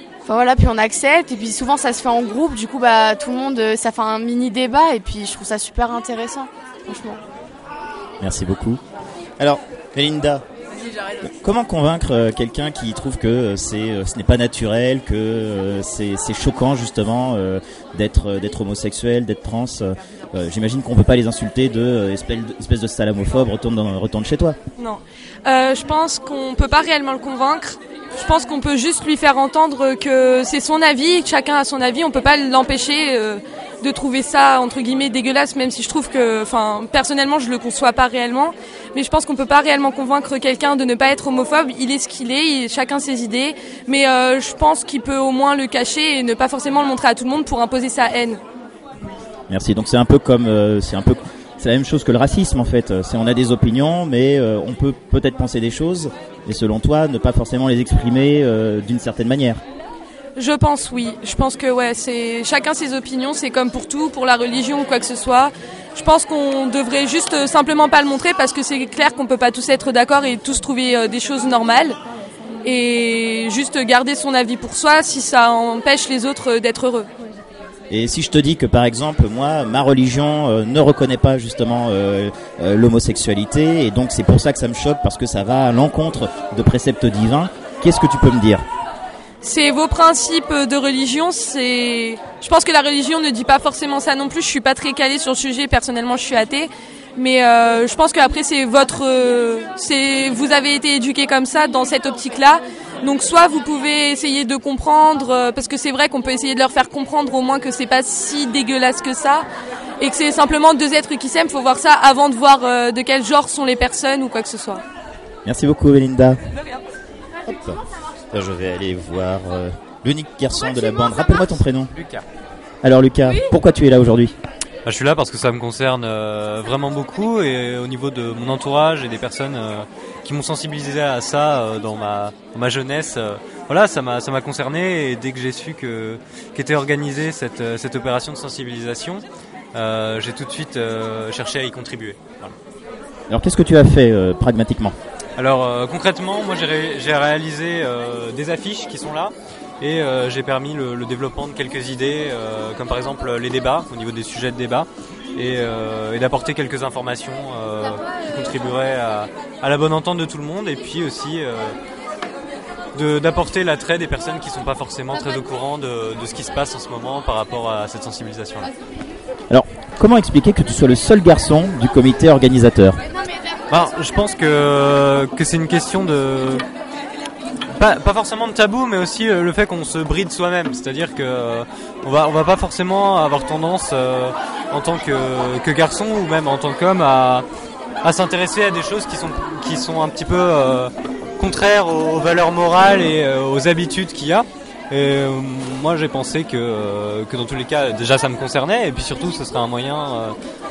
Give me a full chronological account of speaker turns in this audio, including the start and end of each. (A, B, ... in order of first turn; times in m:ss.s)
0:00.2-0:07.2 A
0:08.2-0:08.8 B
0:09.4-0:10.4 B
0:11.2-0:24.6 B
0:24.8-0:48.4 C
0:49.5-0:59.6 B
1:00.4-1:12.0 C
1:12.6-1:17.1 C
1:17.9-1:28.6 B
1:29.4-1:49.5 C
1:50.0-1:54.8 C
1:55.4-1:56.4 B
1:57.4-2:01.9 B
2:01.9-2:02.2 D
2:02.8-2:04.4 B
2:04.9-2:22.5 D
2:23.3-2:25.0 B
2:25.4-2:41.8 D
2:43.0-2:48.7 D
2:49.5-2:53.0 B
2:53.7-2:56.6 D
2:57.8-3:07.5 D
3:08.0-3:20.4 D